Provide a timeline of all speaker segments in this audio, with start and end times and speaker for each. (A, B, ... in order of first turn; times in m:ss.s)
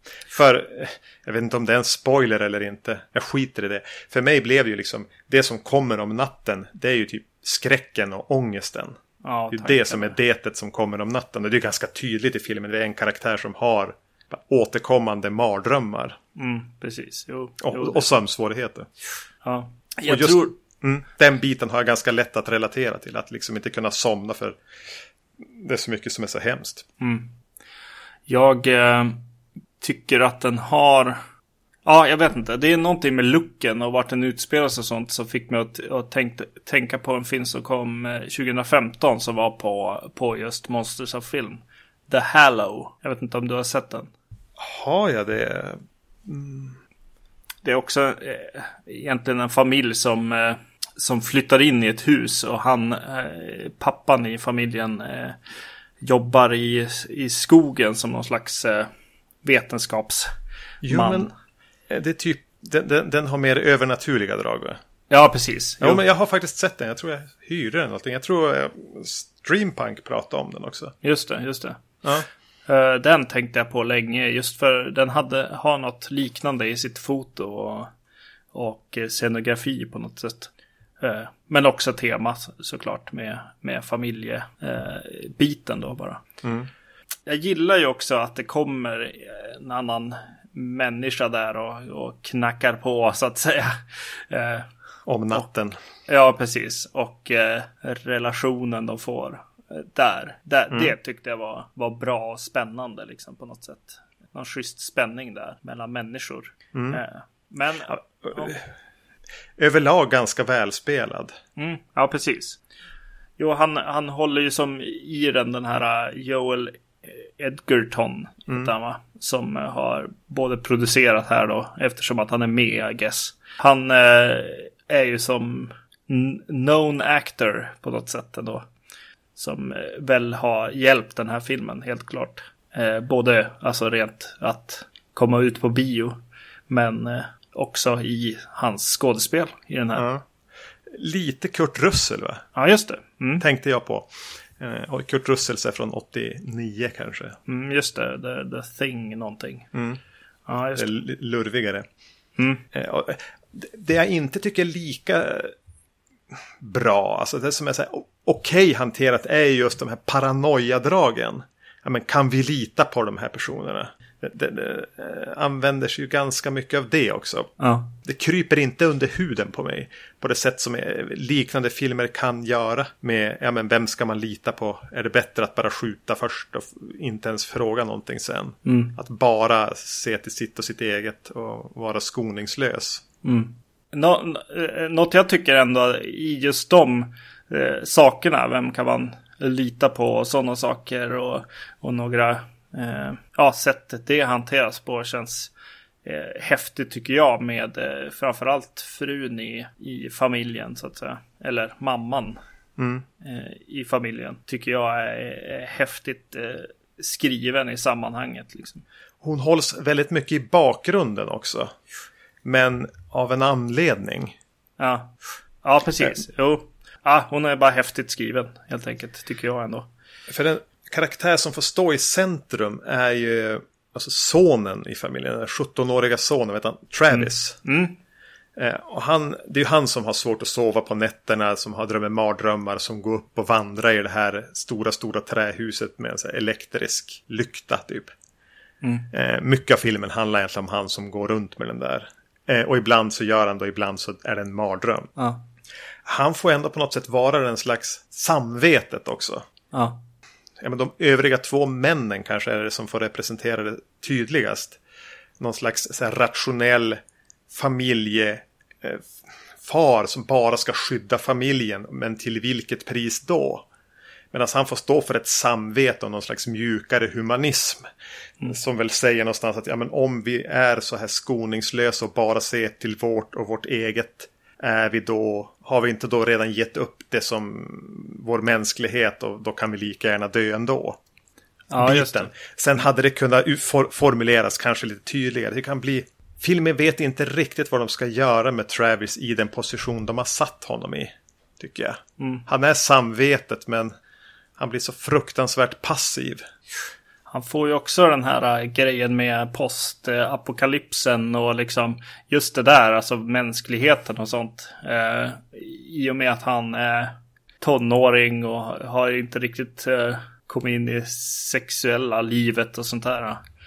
0:00.3-0:09.0 A
0:09.2-0:10.2 B
0:09.5-0:16.2 A
0:16.4-0:18.1 B
0:17.6-0:18.9 A
0:19.4-0:20.6 B
0:20.0-0:24.6 A
0:25.4-0:26.9 A
0:27.0-0:27.3 B
0:28.3-0:29.2 B
0:29.8-0:31.2 B
0:31.8-0:44.1 B
0:44.6-0:46.8 A
0:47.6-0:55.4 B
0:56.0-0:58.9 B
0:59.4-1:00.3 B
1:00.8-1:01.3 A
1:00.8-1:01.3 B
1:01.9-1:04.8 A
1:05.1-1:06.0 B
1:05.8-1:10.9 A
1:11.0-1:11.8 B
1:12.7-1:17.9 B
1:18.5-1:26.2 B
1:26.4-1:26.7 A
1:27.3-1:34.7 B
1:35.1-1:35.8 A
1:36.1-1:48.6 B
1:46.7-1:47.0 A
1:48.2-1:48.6 A
1:49.6-1:51.4 A
1:51.6-1:52.6 B
1:53.4-2:08.7 B
2:09.4-2:16.2 B
2:16.7-2:20.1 B
2:20.0-2:20.2 A
2:20.9-2:22.4 A
2:22.6-2:23.4 B
2:23.4-2:27.4 A
2:27.5-2:29.7 B
2:29.7-2:30.0 A
2:30.5-2:31.0 B
2:30.8-2:31.9 A
2:32.4-2:32.6 B
2:32.7-2:35.5 A
2:36.6-2:47.5 A
2:47.6-2:47.9 B
2:48.0-3:03.0 A
2:58.6-2:58.9 B
3:03.2-3:15.5 B
3:16.0-3:22.4 B
3:22.8-3:23.0 A
3:23.2-3:28.8 B
3:29.2-3:31.7 A
3:32.4-3:34.4 A
3:34.8-3:39.9 B
3:40.3-3:47.6 A
3:47.1-3:48.0 B
3:48.6-3:58.1 A
3:58.8-3:59.1 B
3:59.1-4:05.1 A
4:05.2-4:05.4 B
4:06.0-4:09.4 A
4:09.7-4:10.0 B
4:10.6-4:14.8 A
4:15.4-4:17.0 A
4:17.5-4:23.7 A
4:24.3-4:27.8 A
4:28.4-4:41.0 A
4:41.7-4:42.3 B
4:41.7-4:53.9 A
4:52.2-4:52.4 B
4:54.6-4:56.4 A
4:57.3-5:13.4 B